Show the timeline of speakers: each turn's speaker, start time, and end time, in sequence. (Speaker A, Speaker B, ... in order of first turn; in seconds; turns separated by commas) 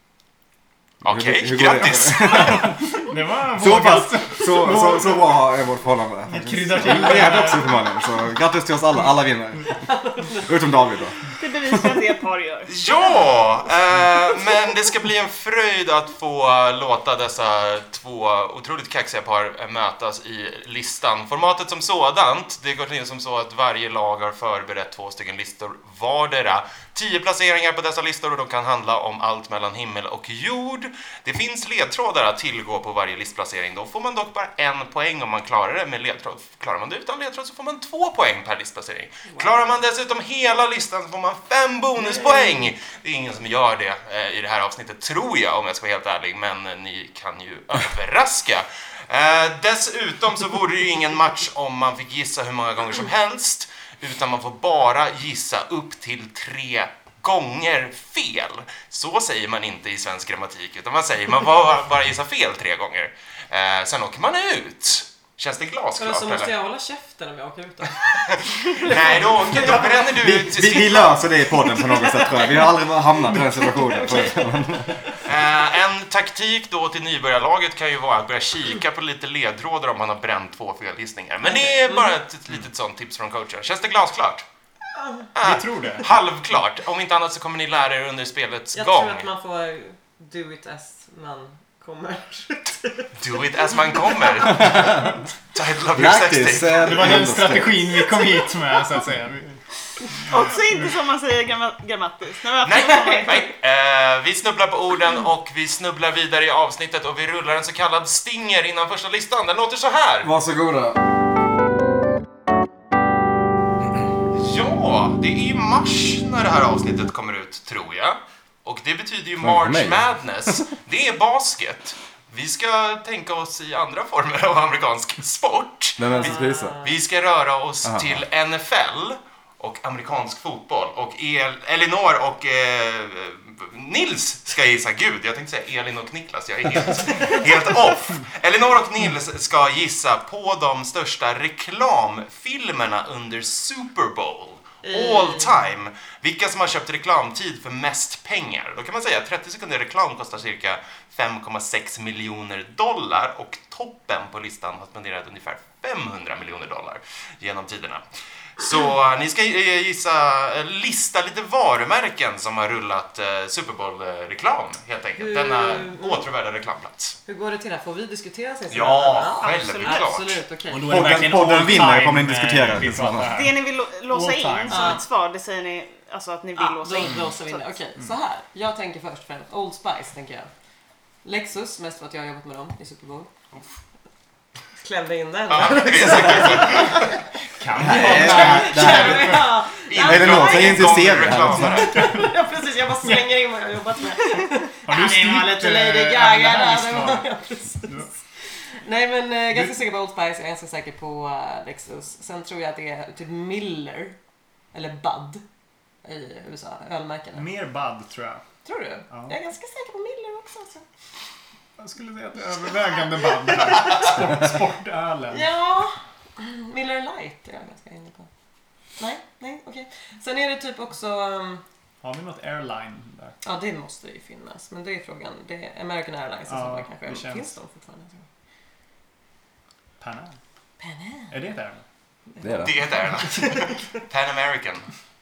Speaker A: 1.0-2.7, Speaker B: 1.0-2.7, Speaker C: 2.6-5.4, Speaker B: 3.5-9.7, Speaker C: 6.2-7.8, Speaker D: 9.9-10.3, Speaker B: 10.2-11.2, Speaker E: 11.4-12.7, Speaker A: 12.7-66.5, Speaker D: 39.3-39.6, Speaker D: 42.0-42.6, Speaker D: 66.0-70.2, Speaker A: 68.3-71.3, Speaker B: 70.1-75.0, Speaker D: 71.7-75.1, Speaker A: 75.2-84.4, Speaker D: 81.4-82.2, Speaker D: 84.9-85.3, Speaker A: 85.3-89.3, Speaker C: 85.4-86.1, Speaker D: 88.7-93.1, Speaker A: 93.2-96.9, Speaker D: 94.0-94.3, Speaker B: 94.5-95.1, Speaker B: 95.9-98.0, Speaker C: 96.7-99.6, Speaker C: 100.2-100.9, Speaker E: 100.2-103.4, Speaker A: 102.6-110.3, Speaker D: 102.8-103.4, Speaker B: 110.2-111.0, Speaker B: 113.8-114.1, Speaker A: 114.3-126.2, Speaker B: 119.4-120.0, Speaker B: 126.0-126.8, Speaker D: 126.1-127.0, Speaker A: 126.8-158.0, Speaker B: 127.8-128.2, Speaker D: 144.8-145.5, Speaker A: 158.6-167.2, Speaker D: 165.2-166.2, Speaker D: 167.3-171.2, Speaker A: 168.7-170.4, Speaker E: 169.4-170.1, Speaker C: 170.7-175.0, Speaker B: 170.9-173.4, Speaker E: 173.2-177.7, Speaker D: 174.7-175.0, Speaker D: 176.5-180.5, Speaker D: 181.2-183.3, Speaker D: 184.8-187.1, Speaker A: 185.5-187.2, Speaker C: 187.6-189.6, Speaker B: 187.7-191.9, Speaker D: 187.8-191.0, Speaker A: 189.8-192.1, Speaker C: 191.6-192.4, Speaker D: 191.8-198.1, Speaker C: 193.0-193.3, Speaker C: 194.8-197.2, Speaker C: 197.8-198.1, Speaker D: 198.7-204.2, Speaker C: 199.5-199.8, Speaker D: 204.7-205.4, Speaker D: 206.0-207.5, Speaker C: 207.3-208.4, Speaker D: 208.6-210.8, Speaker C: 209.1-209.4, Speaker C: 211.8-215.5, Speaker D: 215.3-218.3, Speaker D: 219.0-221.6, Speaker C: 222.0-223.4, Speaker D: 223.4-228.2, Speaker C: 226.5-227.5, Speaker C: 230.0-230.3, Speaker D: 230.8-231.3, Speaker C: 231.3-231.8, Speaker D: 232.3-233.8, Speaker B: 232.4-232.7, Speaker A: 232.6-234.9